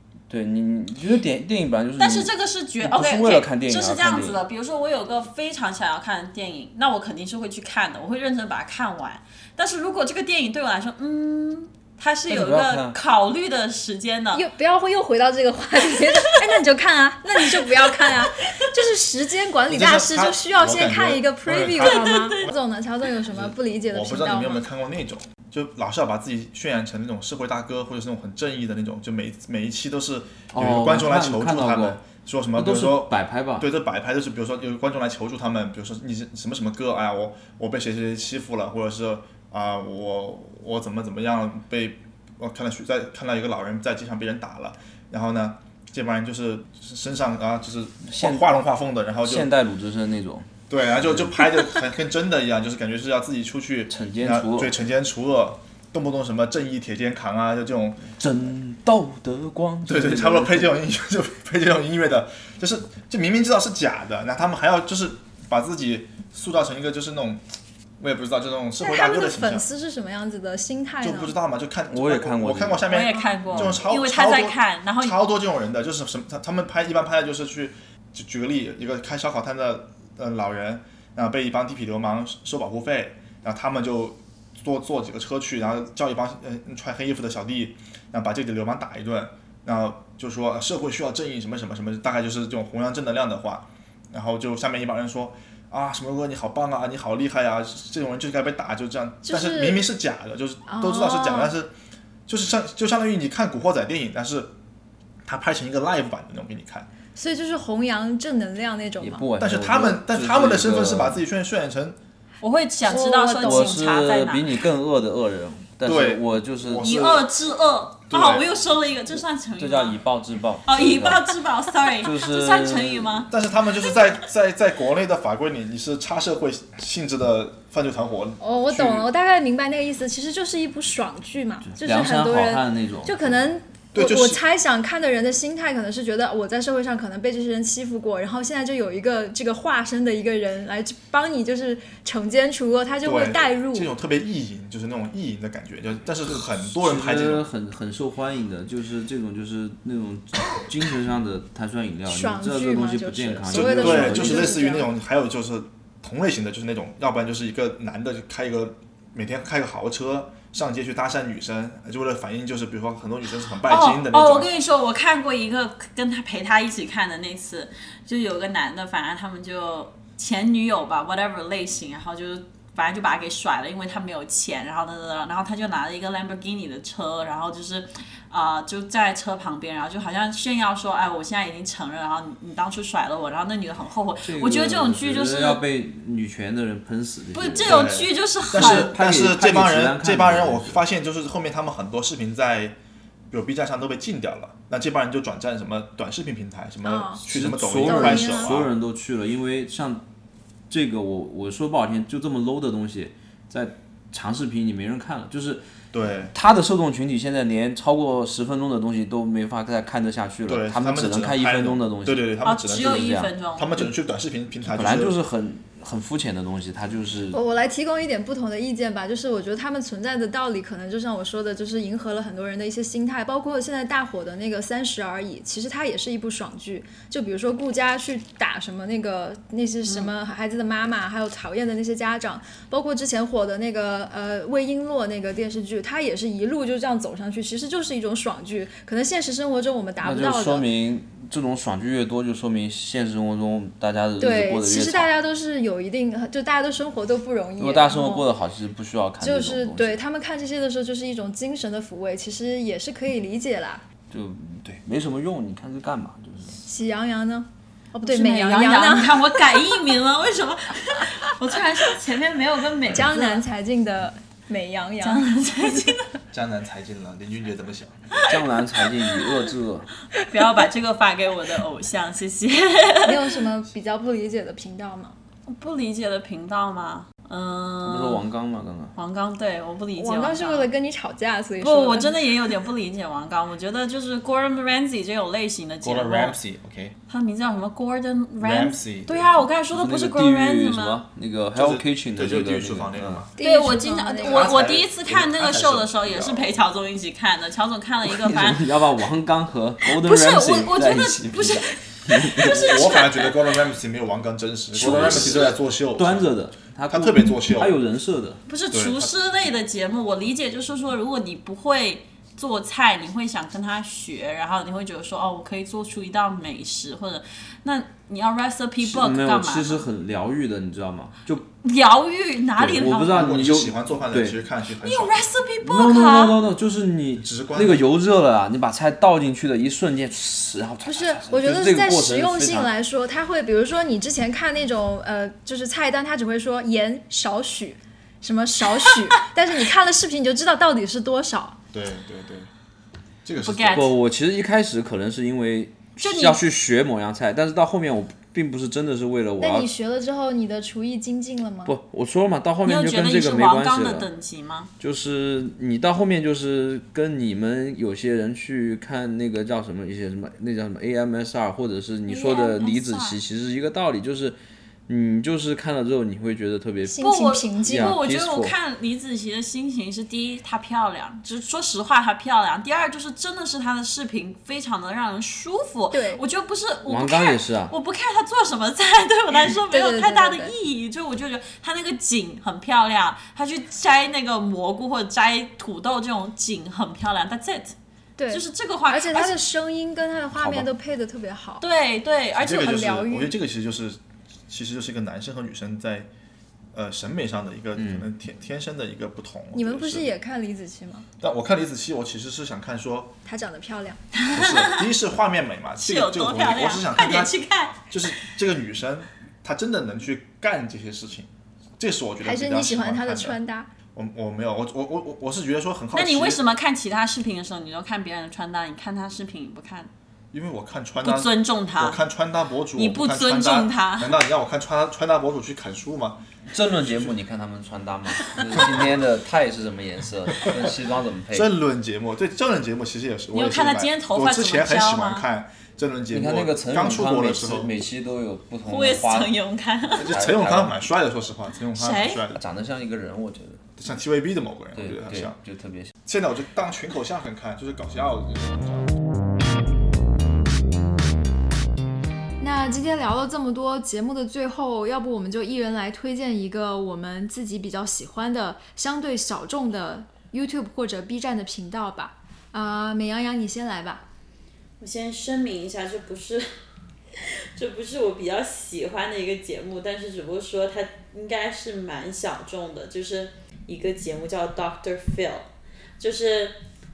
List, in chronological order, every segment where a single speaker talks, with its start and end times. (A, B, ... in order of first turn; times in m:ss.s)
0:00.3-0:02.3 A
0:02.0-0:14.4 B
0:02.8-0:04.4 A
0:12.3-0:13.0 A
0:14.3-0:24.6 C
0:18.0-0:18.3 B
0:19.7-0:22.3 D
0:21.8-0:22.5 B
0:23.3-0:49.5 D
0:30.5-0:32.0 A
0:32.5-0:33.7 A
0:48.0-0:48.5 A
0:49.2-0:50.5 A
0:50.7-0:58.1 D
0:51.0-0:51.3 A
0:53.9-0:54.7 A
0:58.2-1:00.7 A
0:59.8-1:07.4 D
1:08.0-1:09.7 D
1:08.8-1:11.3 C
1:11.0-1:41.7 D
1:11.9-1:12.8 A
1:12.9-1:15.2 B
1:13.0-1:13.3 C
1:13.5-1:13.8 A
1:39.2-1:39.8 C
1:40.6-1:41.5 C
1:42.3-1:44.5 D
1:45.2-1:46.9 D
1:47.1-1:49.2 C
1:49.0-1:51.2 A
1:49.4-1:52.0 D
1:52.4-1:54.6 B
1:52.8-1:53.8 C
1:53.4-1:56.9 A
1:55.8-1:57.3 D
1:56.8-2:00.0 B
1:58.1-1:58.4 D
1:59.6-2:01.3 A
2:00.7-2:03.3 B
2:02.0-2:03.3 A
2:03.3-2:09.1 D
2:08.4-2:23.9 C
2:11.6-2:13.3 A
2:13.9-2:14.4 D
2:23.0-2:27.4 D
2:26.4-2:34.6 A
2:32.1-2:34.9 C
2:33.5-2:44.5 D
2:43.6-3:05.6 B
3:04.2-3:08.0 A
3:07.3-3:09.0 B
3:07.6-3:12.8 D
3:08.5-3:10.8 A
3:13.3-3:18.7 D
3:16.8-3:17.2 C
3:17.3-3:20.0 A
3:17.8-3:18.5 C
3:20.7-3:25.6 A
3:25.9-3:26.3 D
3:26.3-3:33.3 A
3:30.4-3:35.2 D
3:32.4-3:33.8 B
3:34.6-3:37.4 A
3:37.3-4:00.6 C
3:49.8-3:50.1 B
4:00.0-4:05.1 A
4:04.2-4:08.3 C
4:07.6-4:10.0 A
4:09.2-4:13.8 C
4:14.1-4:16.6 A
4:16.6-4:19.6 C
4:18.0-4:23.4 B
4:22.9-4:25.3 C
4:25.0-4:26.0 B
4:26.3-4:28.2 D
4:28.2-4:29.3 B
4:28.3-4:29.9 A
4:30.1-4:33.4 B
4:33.0-4:35.1 C
4:35.5-4:38.2 B
4:37.8-4:38.9 A
4:38.9-4:40.7 B
4:39.9-4:42.1 C
4:41.6-4:46.4 B
4:45.8-4:47.0 D
4:47.1-4:51.0 B
4:48.4-4:49.4 D
4:49.7-4:53.2 A
4:51.5-4:53.3 D
4:53.4-4:54.5 C
4:53.4-4:59.0 B
4:54.2-4:56.6 D
4:58.0-5:02.7 A
4:59.8-5:03.5 B
5:02.5-5:06.4 D
5:04.7-5:08.4 A
5:04.8-5:05.5 B
5:06.9-5:07.8 D
5:08.5-5:19.8 B
5:08.7-5:09.1 D
5:18.8-5:21.4 A
5:21.6-5:23.3 B
5:22.6-5:24.4 A
5:22.6-5:25.2 D
5:24.8-5:26.4 B
5:25.6-5:32.7 A
5:27.2-5:27.8 D
5:30.8-5:41.6 C
5:41.7-5:42.5 D
5:43.2-5:43.9 D
5:43.4-5:43.9 B
5:43.7-5:49.7 A
5:46.0-5:46.4 B
5:49.4-5:51.7 C
5:51.6-5:54.1 A
5:52.6-5:54.7 B
5:54.8-6:07.0 A
6:02.1-6:03.2 B
6:06.8-6:07.9 C
6:07.0-6:27.8 B
6:07.6-6:08.5 A
6:15.9-6:16.2 C
6:16.9-6:17.7 A
6:19.7-6:20.5 C
6:28.2-6:31.6 C
6:28.3-6:29.4 B
6:30.4-6:30.7 D
6:31.6-6:33.0 B
6:32.3-6:36.1 D
6:32.6-6:33.3 C
6:36.7-6:40.1 D
6:37.8-6:38.0 A
6:39.5-6:41.0 C
6:41.2-6:43.1 D
6:43.2-6:44.0 C
6:44.1-6:44.9 B
6:44.3-6:47.4 D
6:45.8-6:48.2 B
6:47.9-6:53.4 D
6:52.2-6:53.7 C
6:53.9-6:56.4 D
6:55.9-6:59.9 B
7:00.3-7:06.2 D
7:01.0-7:02.0 B
7:02.8-7:04.2 B
7:06.5-7:11.5 A
7:06.7-7:07.2 D
7:08.5-7:08.9 D
7:10.4-7:10.8 D
7:11.3-7:17.7 D
7:13.3-7:15.2 B
7:16.1-7:19.3 A
7:18.6-7:20.1 B
7:20.0-7:22.4 D
7:20.0-7:20.8 A
7:21.7-7:22.2 B
7:22.3-7:23.6 A
7:23.8-7:25.4 D
7:24.7-7:25.9 A
7:26.0-7:28.9 D
7:32.4-7:44.0 C
7:44.8-7:46.4 B
7:47.6-7:55.5 B
7:56.0-7:56.6 B